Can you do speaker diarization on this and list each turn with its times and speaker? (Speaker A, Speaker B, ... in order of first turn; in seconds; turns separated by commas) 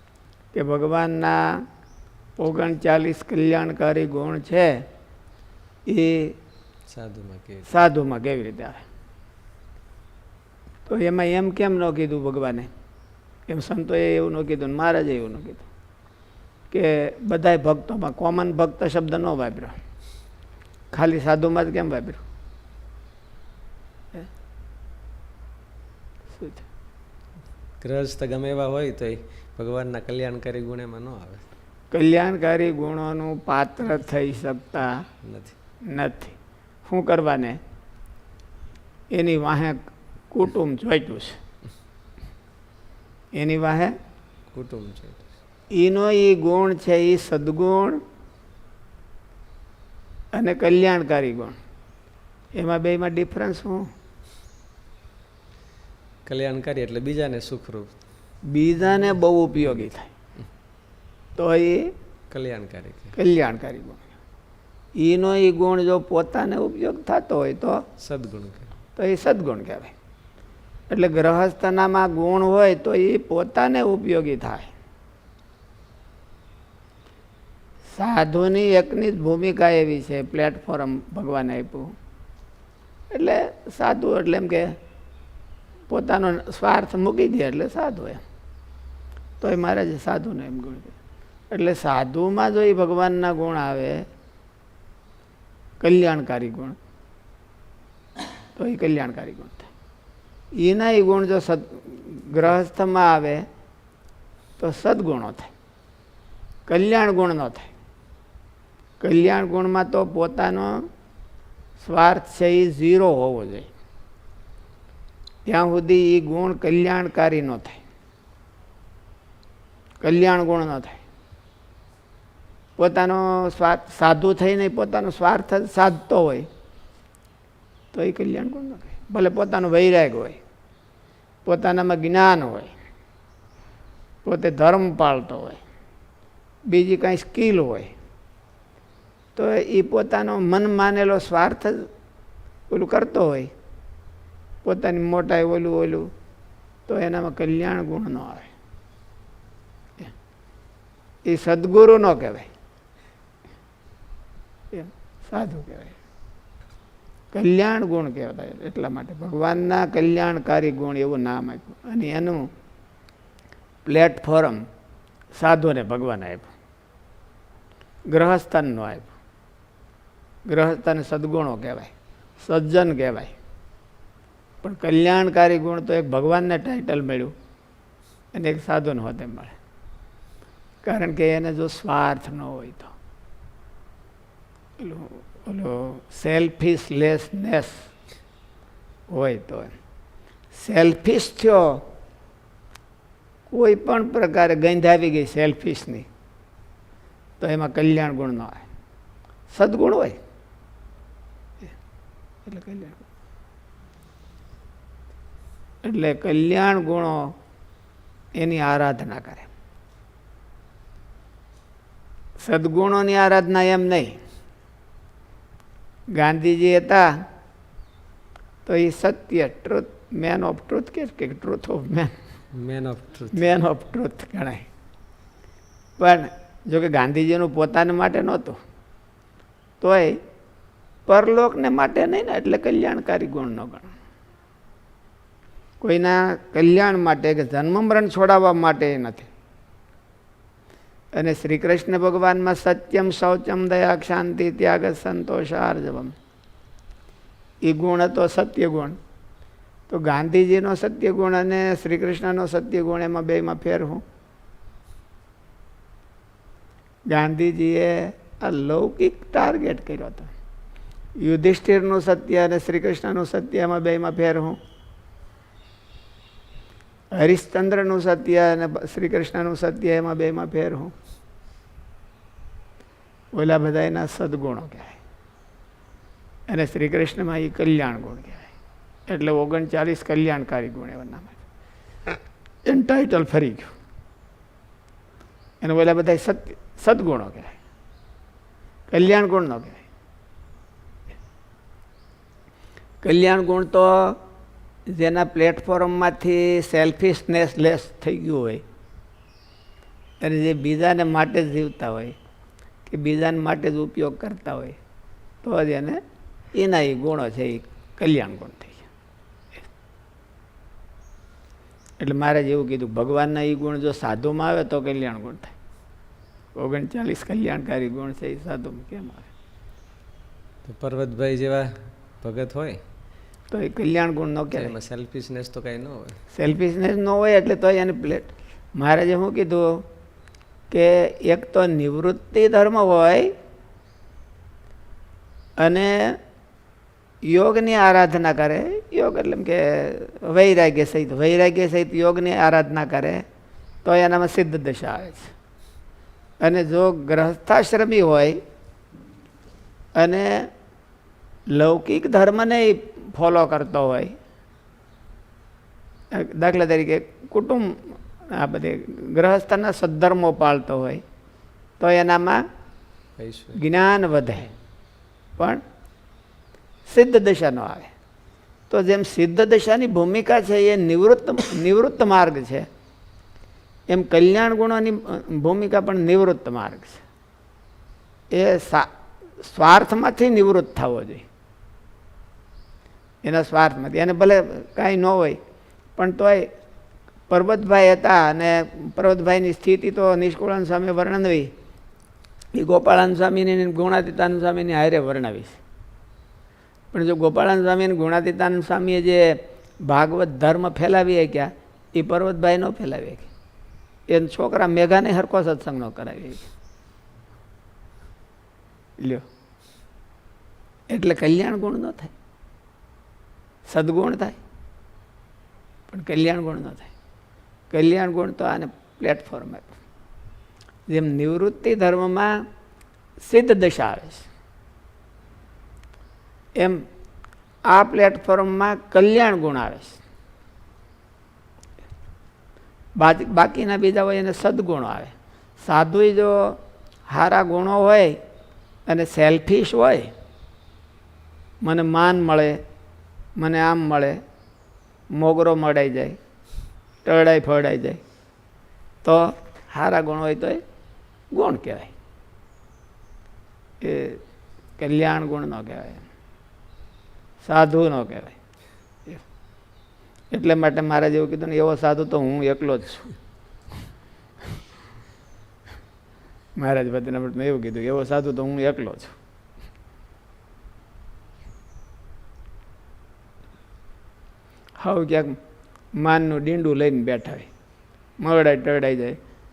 Speaker A: 0.5-1.6, Speaker A: 2.4-4.8, Speaker A: 5.8-6.4, Speaker B: 6.9-7.7, Speaker A: 7.7-8.8, Speaker A: 10.9-12.7, Speaker A: 13.5-15.7, Speaker A: 16.7-19.8, Speaker A: 20.9-22.2, Speaker A: 26.3-26.7, Speaker B: 27.8-31.4, Speaker A: 31.9-35.0, Speaker B: 35.2-35.5, Speaker A: 35.9-37.6, Speaker A: 39.1-39.8, Speaker A: 40.3-41.4, Speaker A: 43.3-43.9, Speaker B: 44.5-45.3, Speaker A: 45.7-48.0, Speaker A: 50.3-51.6, Speaker A: 52.5-53.9, Speaker B: 56.2-58.0, Speaker A: 58.5-60.1, Speaker A: 61.4-61.9, Speaker B: 62.3-63.2, Speaker A: 63.1-64.1, Speaker A: 65.0-67.8, Speaker B: 68.0-68.7, Speaker A: 69.0-69.9, Speaker A: 70.9-74.7, Speaker A: 77.9-81.9, Speaker A: 83.1-84.8, Speaker A: 85.9-88.2, Speaker A: 89.4-91.0, Speaker A: 91.5-94.0, Speaker A: 95.8-96.8, Speaker A: 98.5-99.7, Speaker A: 100.6-103.4, Speaker A: 104.6-105.5, Speaker A: 106.7-107.7, Speaker A: 109.0-110.8, Speaker A: 111.8-113.7, Speaker A: 115.4-117.8, Speaker A: 120.0-121.0, Speaker A: 122.8-126.5, Speaker A: 127.9-130.4, Speaker A: 131.4-132.7, Speaker A: 134.2-135.6, Speaker A: 136.7-137.9, Speaker A: 139.3-141.9, Speaker A: 142.7-143.5, Speaker A: 144.6-146.1, Speaker A: 146.9-148.5, Speaker A: 151.2-152.5, Speaker A: 154.7-156.0, Speaker A: 157.3-162.5, Speaker A: 163.8-164.6, Speaker A: 165.3-166.5, Speaker A: 168.1-169.2, Speaker A: 170.5-173.3, Speaker A: 174.6-177.3, Speaker A: 178.3-179.6, Speaker A: 180.8-182.9, Speaker A: 184.8-187.9, Speaker A: 189.1-189.7, Speaker A: 190.5-191.8, Speaker A: 193.5-196.1, Speaker A: 197.4-198.7, Speaker A: 199.5-200.2, Speaker A: 202.5-203.0, Speaker A: 205.8-207.3, Speaker A: 208.3-209.5, Speaker A: 212.4-214.2, Speaker A: 216.2-217.1, Speaker A: 218.7-222.1, Speaker B: 222.5-223.6, Speaker A: 223.3-224.7, Speaker A: 226.0-228.6, Speaker A: 229.8-230.2, Speaker A: 231.1-233.9, Speaker A: 235.8-239.3, Speaker A: 241.1-246.1, Speaker A: 247.7-249.0, Speaker A: 249.9-254.0, Speaker A: 257.1-260.3, Speaker A: 261.2-264.6, Speaker A: 267.1-270.9, Speaker A: 273.4-275.0, Speaker A: 276.5-278.5, Speaker A: 279.1-281.4, Speaker A: 282.7-283.7, Speaker A: 285.6-287.6, Speaker A: 288.9-289.8, Speaker A: 293.0-294.2, Speaker A: 294.9-298.6, Speaker A: 300.2-302.1, Speaker A: 302.9-304.8, Speaker A: 305.4-306.0, Speaker A: 306.6-308.9, Speaker A: 312.0-315.5, Speaker A: 316.6-319.3, Speaker B: 320.6-322.8, Speaker A: 323.5-324.7, Speaker B: 324.5-326.2, Speaker A: 326.3-329.9, Speaker A: 330.7-333.3, Speaker A: 335.6-336.2, Speaker A: 337.3-343.2, Speaker A: 343.9-345.3, Speaker A: 346.4-348.4, Speaker A: 350.0-350.5, Speaker A: 351.5-354.1, Speaker A: 356.1-361.0, Speaker A: 361.8-362.4, Speaker B: 363.2-363.6, Speaker A: 363.6-364.5, Speaker A: 366.9-367.9, Speaker A: 368.7-372.7, Speaker A: 373.9-377.0, Speaker A: 378.3-378.9, Speaker A: 379.4-381.2, Speaker A: 383.2-385.4, Speaker A: 386.0-386.5, Speaker A: 387.3-391.5, Speaker A: 392.6-395.6, Speaker A: 396.9-403.3, Speaker A: 404.1-406.5, Speaker A: 409.0-409.2, Speaker A: 410.9-412.1, Speaker A: 413.7-414.4, Speaker A: 415.9-416.9, Speaker A: 417.7-419.8, Speaker A: 420.9-422.4, Speaker A: 423.2-424.3, Speaker A: 426.6-426.8, Speaker A: 427.7-430.0, Speaker A: 433.0-438.2, Speaker A: 438.9-440.1, Speaker A: 441.6-442.6, Speaker A: 443.4-444.2, Speaker A: 445.1-446.2, Speaker A: 447.0-448.0, Speaker A: 449.0-450.6, Speaker A: 451.3-451.9, Speaker A: 453.8-454.2, Speaker A: 454.8-456.1, Speaker A: 457.4-458.4, Speaker A: 460.3-463.1, Speaker A: 466.6-469.2, Speaker A: 474.8-475.4, Speaker A: 476.0-477.5, Speaker A: 478.2-479.2